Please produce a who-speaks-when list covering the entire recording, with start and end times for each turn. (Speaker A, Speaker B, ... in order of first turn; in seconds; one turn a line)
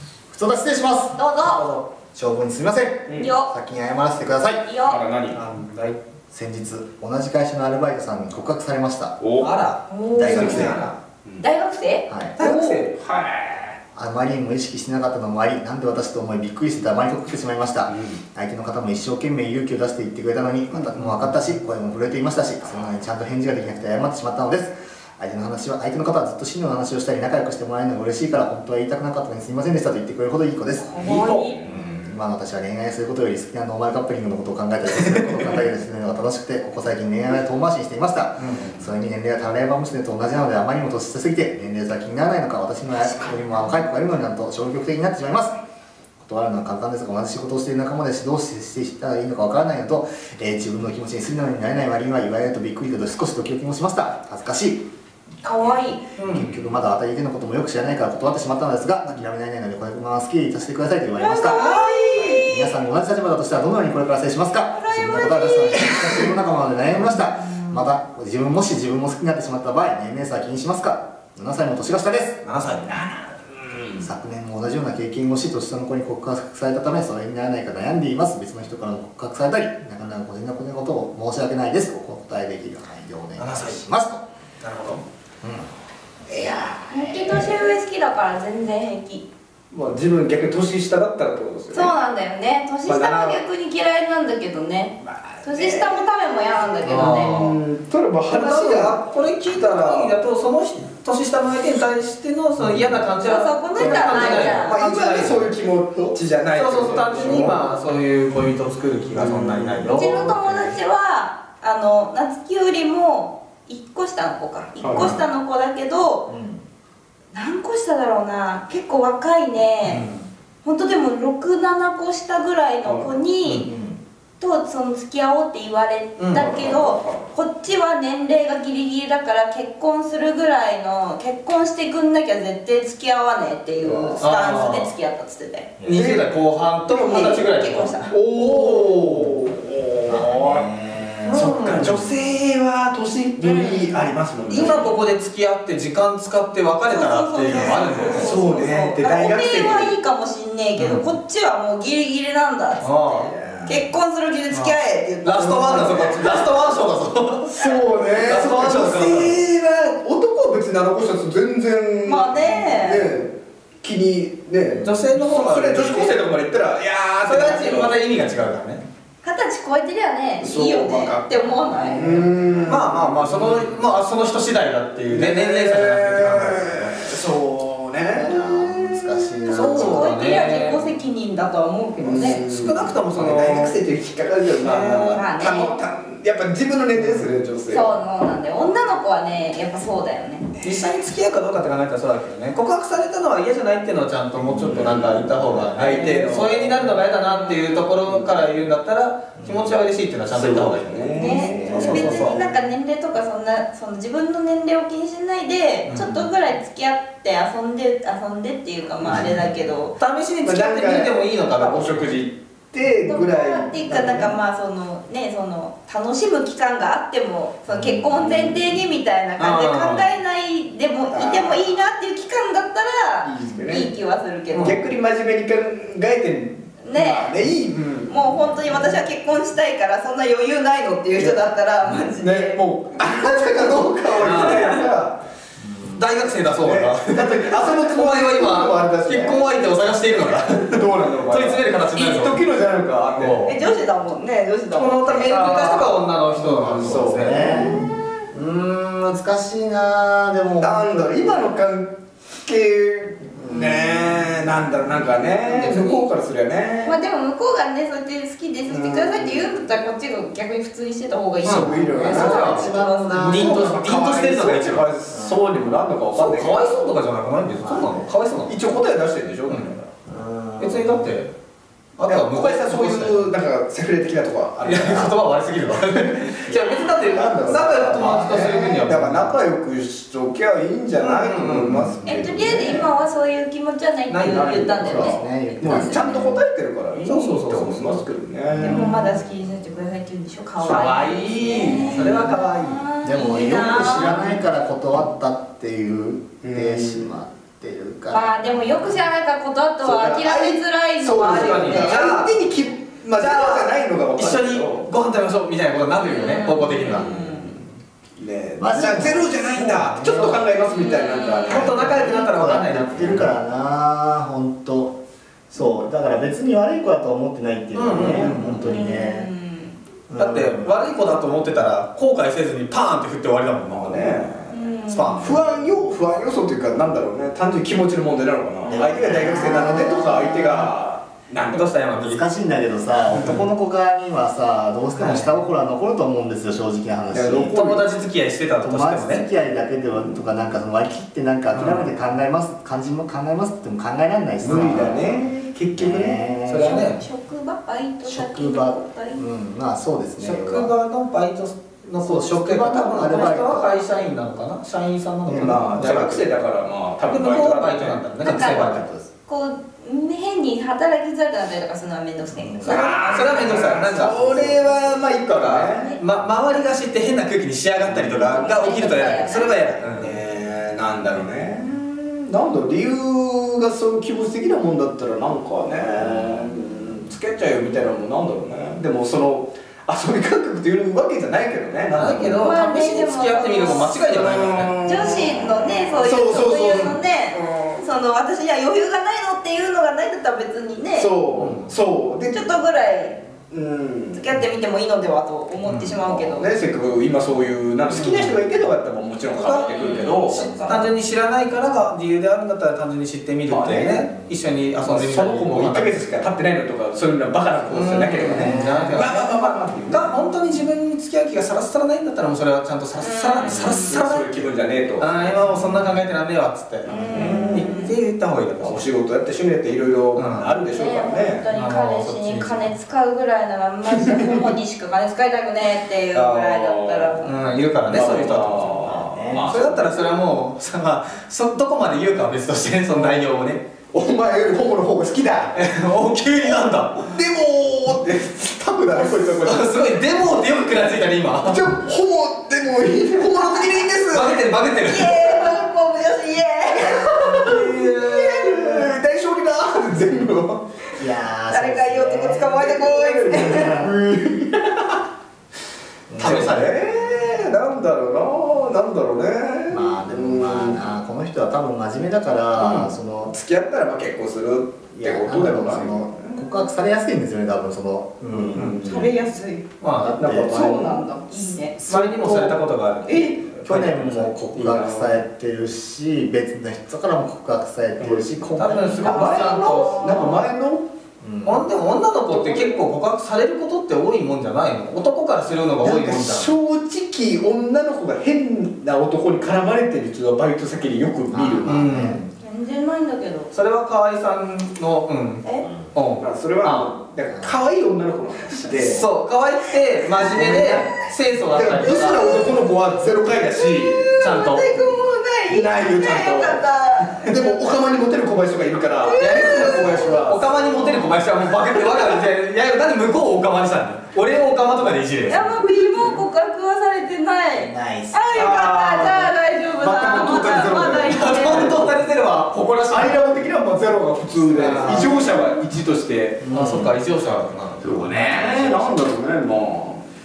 Speaker A: 0.3-1.2
Speaker B: 1.2-1.6
Speaker C: 1.4-1.9
Speaker A: 2.1-4.7
Speaker B: 3.2-3.5
Speaker B: 4.6-5.0
Speaker D: 4.8-5.4
Speaker C: 5.3-6.0
Speaker A: 6.3-9.2
Speaker D: 9.2-9.5
Speaker C: 9.4-10.9
Speaker B: 9.9-10.6
Speaker A: 10.2-11.0
Speaker D: 10.2-11.4
Speaker B: 11.4-12.1
Speaker A: 12.1-12.4
Speaker C: 12.4-12.9
Speaker D: 12.4-13.8
Speaker A: 13.9-45.6
Speaker D: 17.9-18.2
Speaker B: 30.8-31.6
Speaker D: 30.9-32.1
Speaker C: 38.4-38.7
Speaker A: 46.2-54.9
Speaker B: 55.4-56.0
Speaker C: 56.2-56.5
Speaker A: 56.3-72.9
Speaker B: 61.2-62.7
Speaker B: 64.7-65.8
Speaker D: 66.0-66.3
Speaker C: 72.5-73.1
Speaker D: 73.0-74.1
Speaker A: 74.0-84.2
Speaker C: 83.4-83.8
Speaker C: 84.6-85.0
Speaker A: 85.4-85.7
Speaker D: 86.3-87.5
Speaker B: 86.9-89.3
Speaker D: 89.7-91.9
Speaker B: 91.7-97.5
Speaker D: 92.9-93.4
Speaker D: 95.0-95.9
Speaker C: 96.8-97.5
Speaker D: 96.9-100.2
Speaker C: 98.3-105.5
Speaker A: 102.7-103.0
Speaker B: 103.2-104.8
Speaker D: 103.8-107.6
Speaker C: 106.5-110.7
Speaker D: 109.2-109.9
Speaker A: 109.8-110.3
Speaker B: 109.9-116.3
Speaker D: 114.8-115.2
Speaker A: 116.3-116.7
Speaker B: 117.3-120.0
Speaker C: 119.8-120.3
Speaker B: 120.6-123.7
Speaker D: 122.8-123.1
Speaker C: 123.4-123.7
Speaker A: 123.6-124.0
Speaker B: 124.4-135.7
Speaker C: 126.2-126.5
Speaker D: 126.3-127.3
Speaker D: 133.8-134.2
Speaker C: 134.2-134.9
Speaker A: 135.8-136.1
Speaker C: 135.8-138.0
Speaker D: 135.9-136.2
Speaker B: 136.9-138.9
Speaker D: 138.1-140.7
Speaker C: 138.5-138.9
Speaker A: 140.1-142.2
Speaker C: 141.3-142.0
Speaker D: 141.3-145.0
Speaker B: 143.4-143.9
Speaker B: 144.5-144.8
Speaker C: 144.5-148.4
Speaker B: 146.9-156.5
Speaker D: 147.5-149.9
Speaker C: 152.8-153.3
Speaker D: 153.4-153.7
Speaker A: 153.4-153.8
Speaker C: 154.5-159.4
Speaker D: 157.5-168.0
Speaker B: 162.0-163.1
Speaker A: 164.7-165.0
Speaker C: 164.8-166.2
Speaker C: 167.2-168.8
Speaker B: 169.2-172.2
Speaker D: 170.4-173.8
Speaker C: 172.7-177.0
Speaker D: 175.1-179.4
Speaker A: 178.1-180.1
Speaker B: 179.5-182.4
Speaker C: 179.5-180.8
Speaker D: 182.0-187.9
Speaker C: 182.2-183.8
Speaker C: 184.6-185.2
Speaker B: 184.8-185.8
Speaker C: 187.0-187.3
Speaker B: 187.7-190.5
Speaker D: 190.6-190.9
Speaker C: 190.6-202.4
Speaker A: 194.4-195.7
Speaker D: 194.6-196.9
Speaker B: 196.9-197.8
Speaker D: 198.0-198.5
Speaker A: 199.4-199.8
Speaker D: 200.3-202.4
Speaker B: 201.2-210.0
Speaker A: 201.4-202.4
Speaker C: 205.9-206.1
Speaker A: 205.9-206.3
Speaker A: 209.1-209.6
Speaker C: 210.0-212.1
Speaker D: 210.4-214.3
Speaker B: 213.1-224.8
Speaker D: 218.1-218.6
Speaker C: 219.4-220.1
Speaker D: 221.1-221.7
Speaker D: 223.2-223.9
Speaker C: 224.5-224.8
Speaker D: 224.6-228.2
Speaker B: 226.8-227.3
Speaker B: 228.1-234.8
Speaker A: 228.3-229.0
Speaker D: 231.2-231.4
Speaker D: 232.2-235.2
Speaker C: 234.2-234.9
Speaker A: 235.6-236.0
Speaker C: 235.8-242.4
Speaker D: 236.6-239.5
Speaker D: 240.5-243.5
Speaker C: 243.1-243.6
Speaker B: 243.4-246.0
Speaker C: 244.7-247.8
Speaker A: 246.4-251.4
Speaker D: 246.5-247.9
Speaker B: 247.6-248.1
Speaker D: 250.6-257.0
Speaker A: 253.3-254.3
Speaker C: 255.5-256.1
Speaker B: 256.8-263.4
Speaker D: 258.7-259.5
Speaker C: 261.4-264.9
Speaker D: 261.4-267.0
Speaker A: 261.8-263.6
Speaker A: 265.1-265.5
Speaker C: 266.1-268.6
Speaker A: 267.6-268.1
Speaker D: 268.5-269.9
Speaker C: 269.5-269.8
Speaker A: 270.1-271.2
Speaker C: 270.6-271.3
Speaker C: 272.0-273.3
Speaker D: 272.1-275.2
Speaker C: 274.6-279.4
Speaker A: 276.5-276.8
Speaker D: 276.9-282.9
Speaker A: 278.0-278.4
Speaker C: 281.0-281.9
Speaker A: 281.6-282.2
Speaker B: 282.1-286.1
Speaker C: 284.1-284.9
Speaker D: 284.2-289.1
Speaker A: 284.8-286.4
Speaker C: 286.9-288.1
Speaker A: 288.6-288.9
Speaker B: 288.6-294.3
Speaker C: 290.6-292.8
Speaker D: 291.5-292.4
Speaker A: 293.0-299.0
Speaker C: 293.8-294.2
Speaker D: 296.4-297.2
Speaker B: 298.1-302.2
Speaker D: 299.8-304.9
Speaker C: 301.1-302.3
Speaker B: 303.2-303.7
Speaker C: 304.2-307.1
Speaker B: 306.0-307.6
Speaker D: 306.7-307.5
Speaker D: 308.2-312.0
Speaker A: 308.6-310.4
Speaker C: 310.0-310.6
Speaker B: 310.6-311.6
Speaker C: 311.5-313.3
Speaker A: 311.5-315.0
Speaker A: 315.5-319.3
Speaker C: 317.7-318.7
Speaker D: 317.9-318.3
Speaker B: 318.6-319.8
Speaker A: 320.1-320.8
Speaker C: 320.2-324.2
Speaker D: 323.6-331.7
Speaker B: 324.5-325.3
Speaker C: 324.9-325.4
Speaker A: 328.7-330.7
Speaker C: 331.5-332.2
Speaker A: 332.0-337.6
Speaker C: 335.0-335.3
Speaker D: 337.1-337.9
Speaker C: 337.5-339.2
Speaker A: 338.6-346.8
Speaker C: 341.5-341.9
Speaker D: 344.4-346.8
Speaker C: 346.5-347.0
Speaker B: 346.6-349.2
Speaker A: 348.0-350.7
Speaker C: 350.2-356.2
Speaker A: 352.0-353.7
Speaker A: 355.3-356.2
Speaker D: 355.3-358.0
Speaker C: 357.1-358.8
Speaker B: 358.2-364.0
Speaker A: 358.6-359.1
Speaker A: 362.3-362.9
Speaker D: 362.6-365.9
Speaker C: 362.7-364.3
Speaker A: 364.1-365.0
Speaker C: 365.3-370.2
Speaker D: 367.8-369.0
Speaker B: 368.3-369.8
Speaker D: 369.8-382.4
Speaker C: 381.9-384.7
Speaker B: 382.4-383.9
Speaker D: 383.8-387.8
Speaker B: 384.8-391.1
Speaker D: 391.0-392.6
Speaker C: 391.4-391.7
Speaker B: 392.3-393.2
Speaker D: 393.5-394.2
Speaker B: 394.1-396.5
Speaker D: 395.9-400.8
Speaker C: 397.9-398.4
Speaker C: 399.3-406.1
Speaker B: 399.5-400.9
Speaker D: 403.5-404.1
Speaker A: 404.1-404.4
Speaker D: 404.8-410.3
Speaker C: 407.7-414.5
Speaker A: 408.2-409.1
Speaker B: 413.0-414.0
Speaker D: 413.4-415.9
Speaker C: 415.0-418.9
Speaker A: 415.5-415.9
Speaker D: 416.9-417.8
Speaker B: 416.9-417.9
Speaker D: 418.6-421.4
Speaker C: 420.2-420.6
Speaker B: 420.7-427.3
Speaker C: 421.5-422.7
Speaker D: 423.9-424.6
Speaker D: 426.1-427.2
Speaker C: 427.2-428.8
Speaker D: 427.8-430.1
Speaker A: 428.8-429.5
Speaker C: 429.3-433.6
Speaker D: 432.9-433.2
Speaker D: 433.9-435.6
Speaker C: 435.5-437.1
Speaker D: 437.0-439.7
Speaker C: 439.0-441.7
Speaker D: 441.4-444.4
Speaker B: 443.4-443.8
Speaker C: 444.1-445.5
Speaker B: 444.8-448.6
Speaker D: 446.8-450.7
Speaker C: 447.3-448.9
Speaker A: 451.0-452.6
Speaker B: 451.5-453.9
Speaker D: 452.4-455.0
Speaker A: 453.3-453.9
Speaker A: 456.1-456.7
Speaker D: 456.2-460.8
Speaker C: 456.2-456.7
Speaker A: 459.7-463.3
Speaker D: 462.6-466.5
Speaker A: 464.9-468.8
Speaker D: 468.3-469.1
Speaker B: 468.8-469.7
Speaker C: 469.8-470.2
Speaker A: 469.9-470.9
Speaker D: 470.2-471.0
Speaker B: 470.3-471.8
Speaker A: 471.8-472.6
Speaker C: 471.8-474.3
Speaker B: 473.1-473.4
Speaker A: 473.6-479.1
Speaker D: 474.5-475.2
Speaker D: 478.0-480.9
Speaker C: 478.6-480.3
Speaker B: 479.0-480.4
Speaker A: 481.2-481.7
Speaker C: 481.4-486.5
Speaker B: 482.3-482.8
Speaker D: 485.8-491.9
Speaker A: 491.3-492.3
Speaker C: 491.7-492.2
Speaker B: 492.4-493.5
Speaker C: 493.5-496.9
Speaker D: 496.2-499.0
Speaker A: 497.3-497.6
Speaker C: 498.7-502.4
Speaker D: 500.2-500.9
Speaker D: 501.5-504.2
Speaker B: 502.3-502.6
Speaker B: 503.6-507.5
Speaker C: 504.2-504.6
Speaker D: 505.5-506.6
Speaker D: 507.2-511.2
Speaker B: 509.0-510.1
Speaker C: 509.2-515.5
Speaker A: 510.7-511.2
Speaker B: 515.3-521.9
Speaker D: 515.7-516.2
Speaker A: 517.5-518.4
Speaker D: 518.3-522.0
Speaker C: 521.1-523.2
Speaker D: 522.9-526.4
Speaker C: 524.4-525.3
Speaker A: 524.5-525.1
Speaker A: 526.4-527.0
Speaker C: 526.5-528.0
Speaker D: 527.8-530.0
Speaker A: 528.0-529.0